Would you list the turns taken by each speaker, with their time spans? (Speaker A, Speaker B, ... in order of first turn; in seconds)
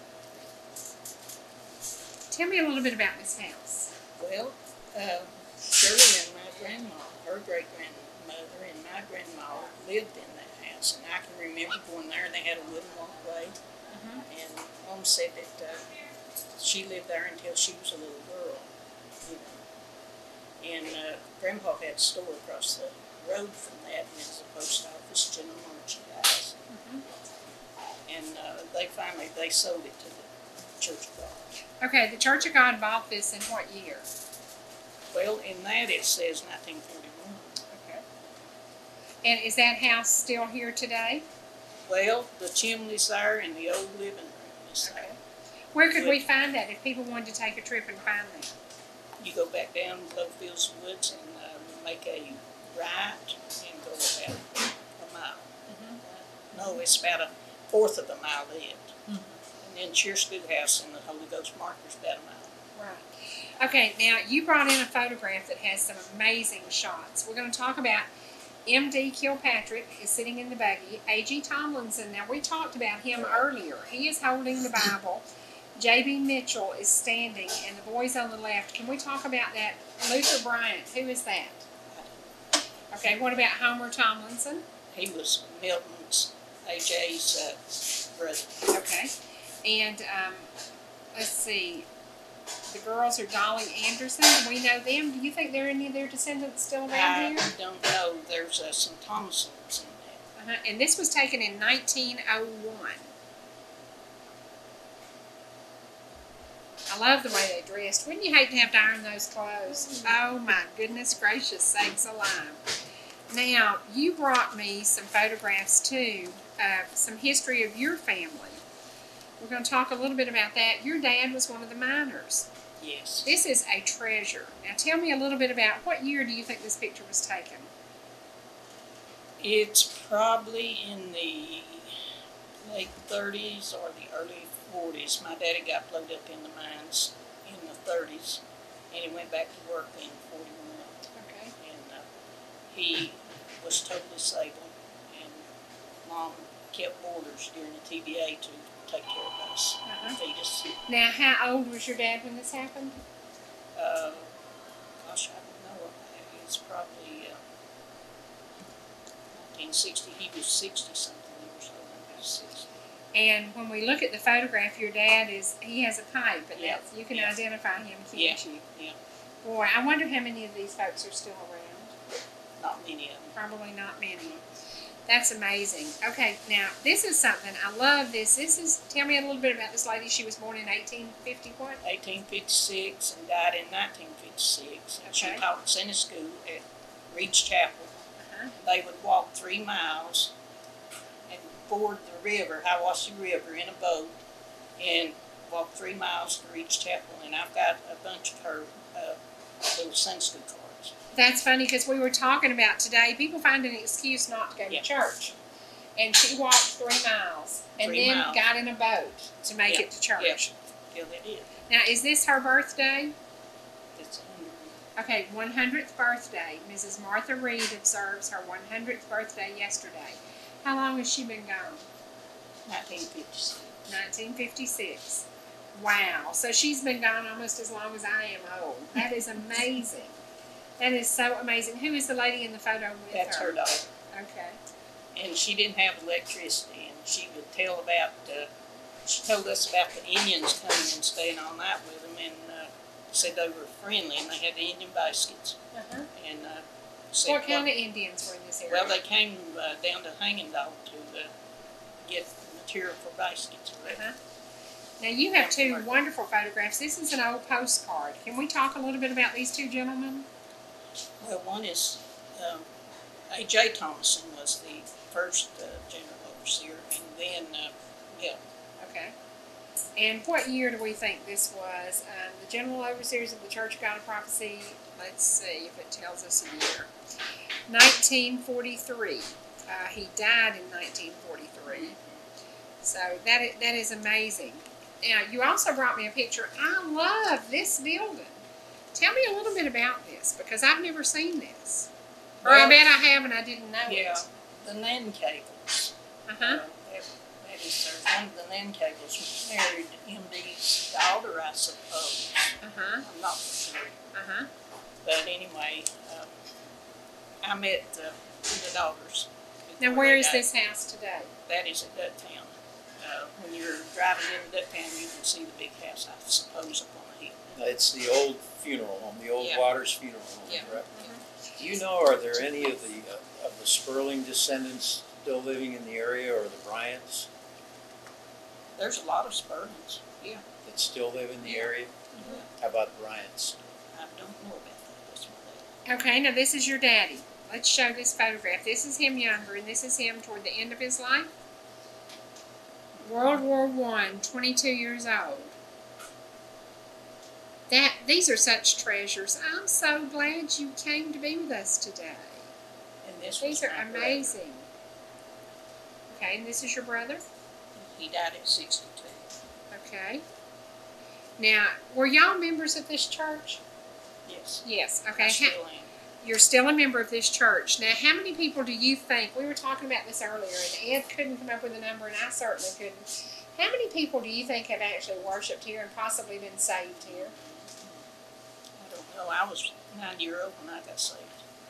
Speaker A: 2.3-3.9, 13.9-14.2, 26.7-27.0, 31.8-34.1, 37.7-38.0, 39.2-41.3, 44.9-45.2, 45.7-48.5, 55.7-56.0, 56.5-56.8, 62.8-68.1, 68.7-75.2, 75.8-81.7, 82.9-84.6, 88.7-90.5, 91.1-91.9, 92.7-97.5, 100.4-103.1, 106.9-112.6, 113.3-118.6, 119.4-122.5, 123.2-127.7, 141.1-141.5, 149.9-150.2, 150.9-153.0, 163.1-168.6, 169.4-171.9, 173.4-174.4, 175.1-181.8, 185.1-185.4, 188.2-188.5, 201.1-205.3, 206.0-210.5, 211.7-213.2, 215.0-221.8, 223.9-230.2, 230.8-233.6, 234.1-234.6, 245.7-246.1, 247.3-249.0, 253.9-254.2, 255.0-260.3, 268.8-269.1, 270.0-276.9, 277.7-281.9, 282.8-288.4, 288.9-291.9, 292.4-294.2, 296.3-296.6, 302.6-303.0, 304.1-304.5, 309.8-311.3, 320.9-321.5, 335.9-341.3, 343.0-345.5, 347.7-352.5, 353.4-354.7, 356.1-357.2, 359.7-360.2, 361.4-363.6, 364.6-365.6, 366.2-377.3
Speaker B: 4.2-13.6, 14.3-15.9, 16.6-18.7, 19.2-19.6, 20.6-26.6, 28.1-31.5, 35.1-37.6, 41.9-45.1, 45.9-46.2, 49.2-55.5, 56.0-59.0, 59.6-62.5, 81.9-82.3, 84.9-88.6, 96.9-100.2, 122.8-123.3, 129.4-131.9, 132.7-141.0, 141.6-142.1, 142.7-145.4, 146.0-150.7, 153.8-154.3, 155.0-157.4, 159.3-162.8, 166.6-167.3, 168.1-169.0, 172.6-173.3, 181.8-188.0, 188.6-190.3, 191.3-194.2, 194.8-200.9, 207.8-208.5, 209.7-211.5, 213.9-214.8, 222.7-223.9, 233.1-233.9, 235.2-238.5, 239.1-245.6, 246.1-247.7, 248.7-251.3, 252.0-254.0, 255.3-256.0, 261.2-262.7, 263.3-268.4, 281.7-282.2, 292.4-292.8, 293.9-304.0, 305.0-306.3, 307.4-310.5, 311.5-317.6, 319.4-319.7, 320.5-320.8, 328.8-330.4, 331.5-332.5, 333.9-335.7, 343.0-343.4, 353.0-354.4, 357.8-359.3, 364.3-364.6, 365.2-365.9, 377.1-378.0, 378.8-381.4
Speaker C: 317.6-320.9, 321.6-327.3, 330.6-333.6